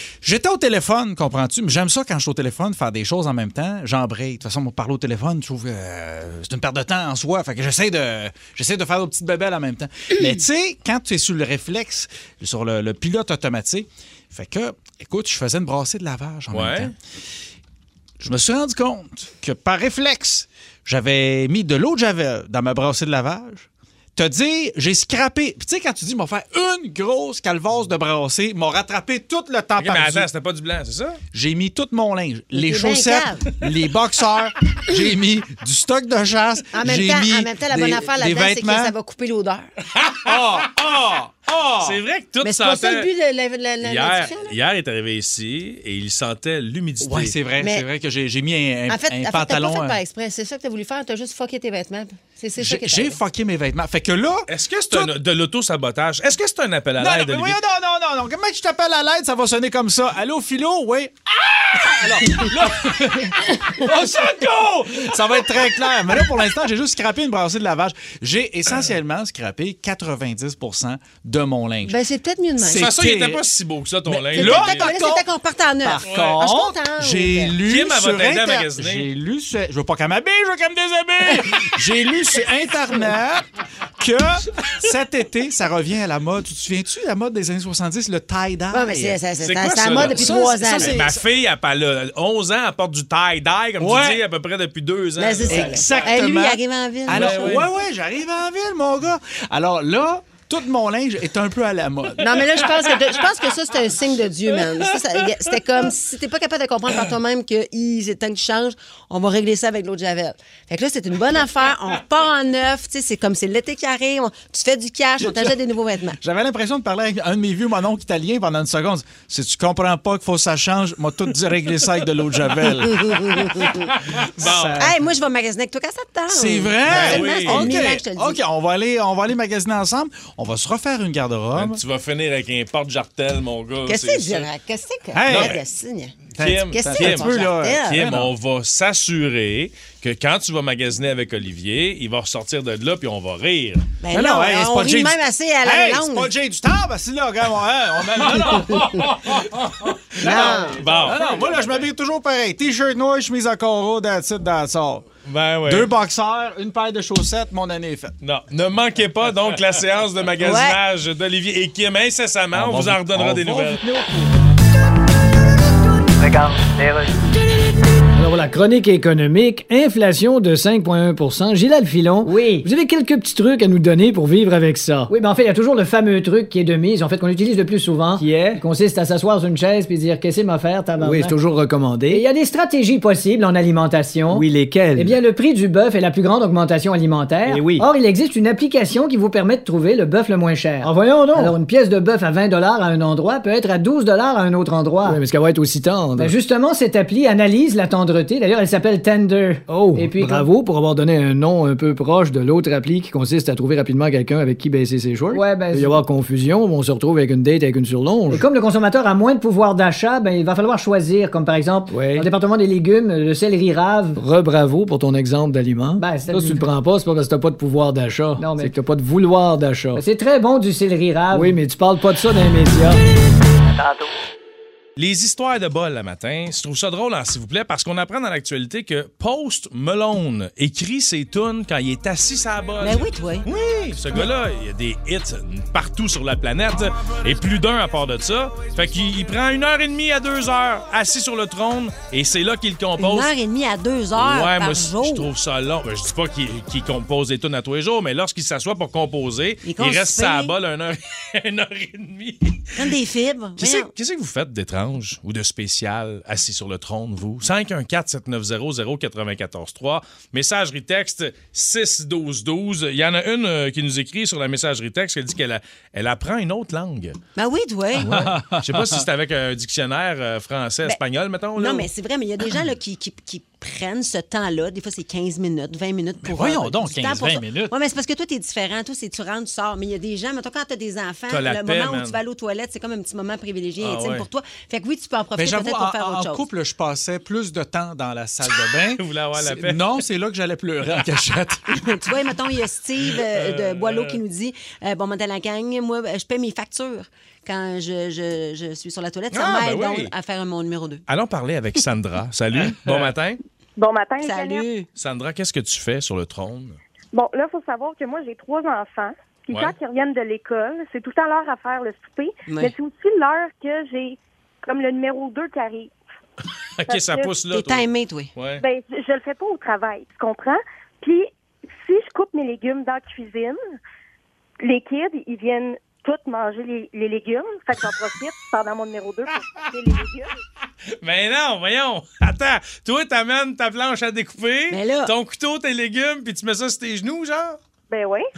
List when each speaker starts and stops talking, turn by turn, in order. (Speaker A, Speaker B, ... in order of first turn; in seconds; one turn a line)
Speaker A: 0.2-16.9
Speaker B: 16.5-16.9
Speaker A: 18.2-30.3
Speaker B: 29.8-31.2
Speaker A: 31.3-38.9
Speaker C: 32.5-33.4
Speaker C: 36.8-39.7
Speaker B: 40.0-40.4
Speaker A: 40.2-42.0
Speaker B: 41.8-43.1
Speaker C: 42.4-44.5
Speaker B: 43.8-47.4
Speaker A: 47.0-50.0
Speaker C: 48.9-53.2
Speaker A: 52.6-55.1
Speaker B: 54.5-57.6
Speaker A: 57.0-61.1
Speaker A: 61.7-72.0
Speaker C: 71.8-72.9
Speaker A: 72.6-73.4
Speaker B: 72.7-74.9
Speaker A: 74.1-75.3
Speaker C: 74.3-77.5
Speaker A: 75.8-83.5
Speaker B: 76.0-76.4
Speaker B: 77.6-79.1
Speaker A: 84.0-89.2
Speaker C: 88.7-91.0
Speaker B: 89.4-96.0
Speaker A: 89.9-91.2
Speaker A: 93.8-94.2
Speaker C: 95.2-97.6
Speaker A: 95.5-102.3
Speaker B: 97.1-97.7
Speaker C: 102.2-116.2
Speaker A: 116.2-123.4
Speaker C: 122.8-123.9
Speaker A: 124.4-125.0
Speaker B: 124.4-124.8
Speaker C: 124.8-128.4
Speaker A: 126.3-131.8
Speaker B: 126.9-127.8
Speaker B: 131.6-134.5
Speaker C: 133.9-138.0
Speaker A: 135.1-135.6
Speaker B: 135.3-135.6
Speaker A: 136.3-138.3
Speaker B: 136.3-137.3
Speaker B: 137.8-143.8
Speaker C: 144.0-146.3
Speaker A: 144.1-149.1
Speaker B: 148.3-151.7
Speaker A: 150.2-155.1
Speaker C: 150.2-150.9
Speaker B: 155.2-155.9
Speaker A: 155.7-158.1
Speaker B: 158.2-163.8
Speaker C: 160.4-160.8
Speaker A: 162.5-164.3
Speaker D: 168.2-173.4
Speaker E: 172.2-172.7
Speaker E: 173.6-175.1
Speaker D: 175.1-181.4
Speaker E: 178.2-178.6
Speaker E: 181.0-182.2
Speaker D: 182.1-195.2
Speaker E: 184.3-185.2
Speaker E: 187.5-187.9
Speaker E: 190.8-191.6
Speaker E: 195.0-196.3
Speaker D: 196.2-200.5
Speaker E: 199.7-208.4
Speaker D: 205.3-206.0
Speaker D: 208.3-214.2
Speaker E: 211.9-212.3
Speaker E: 214.2-220.0
Speaker D: 216.0-216.7
Speaker D: 218.4-218.7
Speaker D: 219.9-221.6
Speaker E: 221.3-222.9
Speaker B: 225.0-243.3
Speaker C: 232.8-233.5
Speaker C: 243.0-245.3
Speaker B: 244.2-252.9
Speaker C: 249.6-250.5
Speaker C: 252.8-253.9
Speaker B: 253.6-267.2
Speaker C: 267.4-268.3
Speaker A: 267.9-269.0
Speaker B: 268.1-271.9
Speaker C: 271.6-286.4
Speaker A: 276.2-277.7
Speaker B: 281.3-282.1
Speaker B: 283.8-284.2
Speaker A: 285.4-291.7
Speaker B: 288.5-290.0
Speaker C: 291.7-301.0
Speaker B: 293.2-294.2
Speaker B: 299.3-300.1
Speaker B: 301.1-303.4
Speaker F: 303.8-304.7
Speaker C: 304.2-304.9
Speaker B: 304.9-306.8
Speaker F: 307.1-315.9
Speaker B: 309.5-309.8
Speaker C: 312.5-312.7
Speaker B: 316.8-318.6
Speaker F: 316.9-317.3
Speaker C: 317.5-318.3
Speaker F: 318.6-323.6
Speaker F: 324.6-330.3
Speaker B: 331.0-337.6
Speaker C: 334.7-335.1
Speaker F: 337.9-338.2